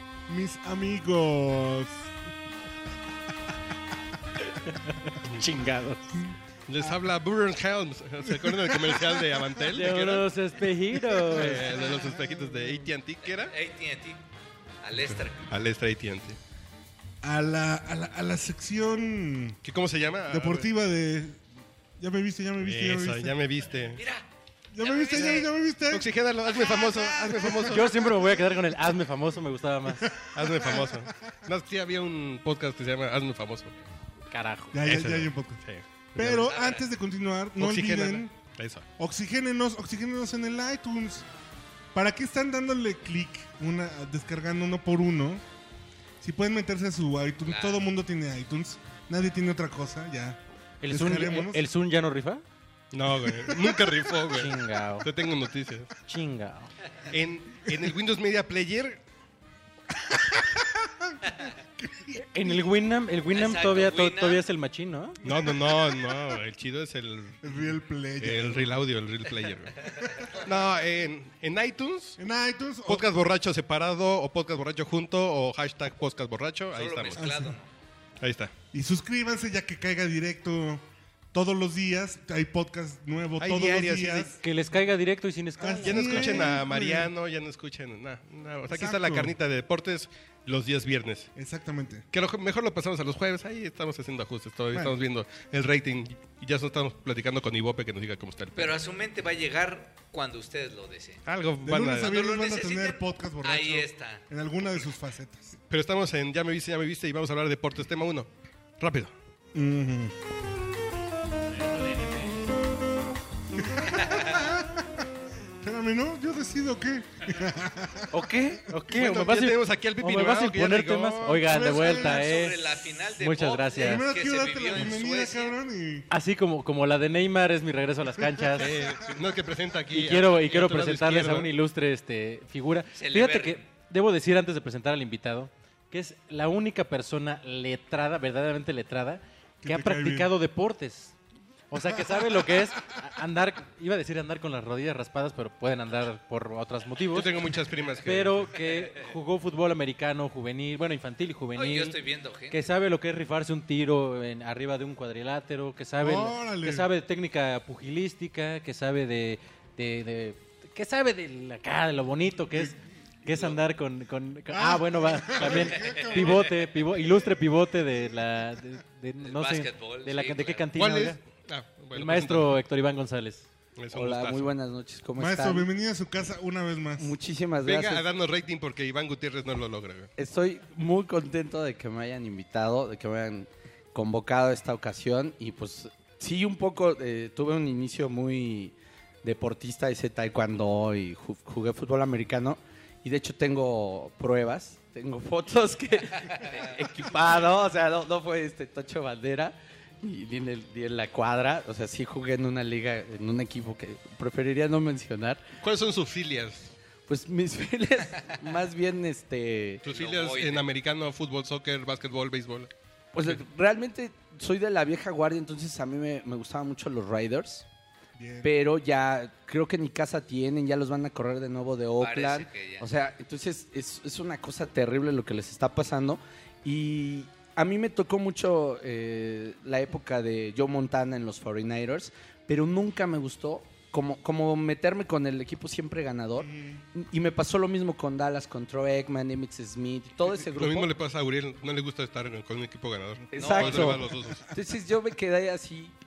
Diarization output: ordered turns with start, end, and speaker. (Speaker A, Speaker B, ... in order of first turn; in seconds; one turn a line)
Speaker A: 0.3-2.1
Speaker B: 4.7-6.2
Speaker C: 6.7-10.3
Speaker A: 8.3-9.7
Speaker B: 9.7-11.6
Speaker A: 10.9-12.4
Speaker C: 11.3-13.5
Speaker D: 13.5-14.2
Speaker D: 14.8-15.5
Speaker C: 14.9-16.4
Speaker A: 17.2-19.6
Speaker C: 19.6-20.7
Speaker A: 20.3-21.4
Speaker A: 22.0-23.4
Speaker C: 22.6-24.0
Speaker D: 23.9-24.2
Speaker A: 24.7-28.9
Speaker D: 24.8-25.5
Speaker C: 25.9-28.0
Speaker B: 27.6-30.1
Speaker A: 29.9-31.1
Speaker C: 30.3-33.7
Speaker B: 34.3-34.8
Speaker A: 34.7-38.4
Speaker C: 34.8-36.5
Speaker D: 36.4-36.8
Speaker C: 37.6-38.9
Speaker A: 39.0-41.2
Speaker A: 41.9-45.4
Speaker A: 46.2-51.6
Speaker D: 47.4-47.8
Speaker B: 50.8-52.4
Speaker C: 52.9-55.9
Speaker A: 53.2-54.0
Speaker B: 54.3-55.1
Speaker B: 56.0-56.7
Speaker C: 57.1-59.0
Speaker A: 57.6-57.9
Speaker A: 60.0-62.8
Speaker B: 62.1-65.2
Speaker D: 63.3-64.4
Speaker A: 65.2-66.3
Speaker C: 65.2-67.6
Speaker A: 67.4-68.8
Speaker C: 68.2-72.2
Speaker A: 72.2-73.1
Speaker C: 72.8-77.3
Speaker D: 76.7-77.7
Speaker A: 77.1-77.5
Speaker C: 78.2-78.5
Speaker A: 78.7-84.4
Speaker C: 83.4-84.3
Speaker B: 84.4-86.6
Speaker A: 85.6-87.1
Speaker C: 85.8-91.3
Speaker A: 88.7-89.3
Speaker A: 91.3-92.0
Speaker C: 92.1-98.8
Speaker D: 98.5-101.2
Speaker C: 101.2-102.1
Speaker A: 101.6-105.6
Speaker D: 102.0-104.2
Speaker C: 105.7-109.1
Speaker A: 109.5-110.1
Speaker A: 113.5-114.8
Speaker D: 113.8-114.5
Speaker A: 115.6-118.2
Speaker B: 118.1-122.6
Speaker C: 118.9-121.5
Speaker A: 121.4-122.3
Speaker D: 121.6-125.6
Speaker B: 123.1-124.0
Speaker A: 123.8-126.1
Speaker B: 126.1-128.7
Speaker A: 128.2-128.8
Speaker C: 128.5-131.5
Speaker B: 129.9-141.1
Speaker D: 132.9-133.7
Speaker A: 139.6-140.3
Speaker B: 141.7-147.4
Speaker A: 141.8-143.0
Speaker C: 147.1-148.5
Speaker B: 148.0-152.0
Speaker D: 151.5-152.6
Speaker B: 152.5-171.2
Speaker A: 156.0-156.9
Speaker A: 162.4-162.7
Speaker A: 164.5-166.5
Speaker D: 165.4-166.4
Speaker D: 169.2-170.7
Speaker C: 170.8-172.5
Speaker B: 171.9-173.5
Speaker C: 173.8-174.5
Speaker E: 173.9-175.7
Speaker A: 175.2-177.1
Speaker E: 177.0-178.1
Speaker C: 177.6-180.1
Speaker E: 180.2-205.4
Speaker C: 205.6-206.7
Speaker E: 207.1-209.9
Speaker C: 209.8-212.7
Speaker D: 209.8-210.7
Speaker E: 213.1-217.7
Speaker A: 218.2-218.5
Speaker E: 218.4-240.9
Speaker D: 222.0-222.9
Speaker A: 236.4-236.8
Speaker C: 240.5-244.4
Speaker A: 243.2-244.4
Speaker E: 243.3-245.9
Speaker D: 243.3-243.7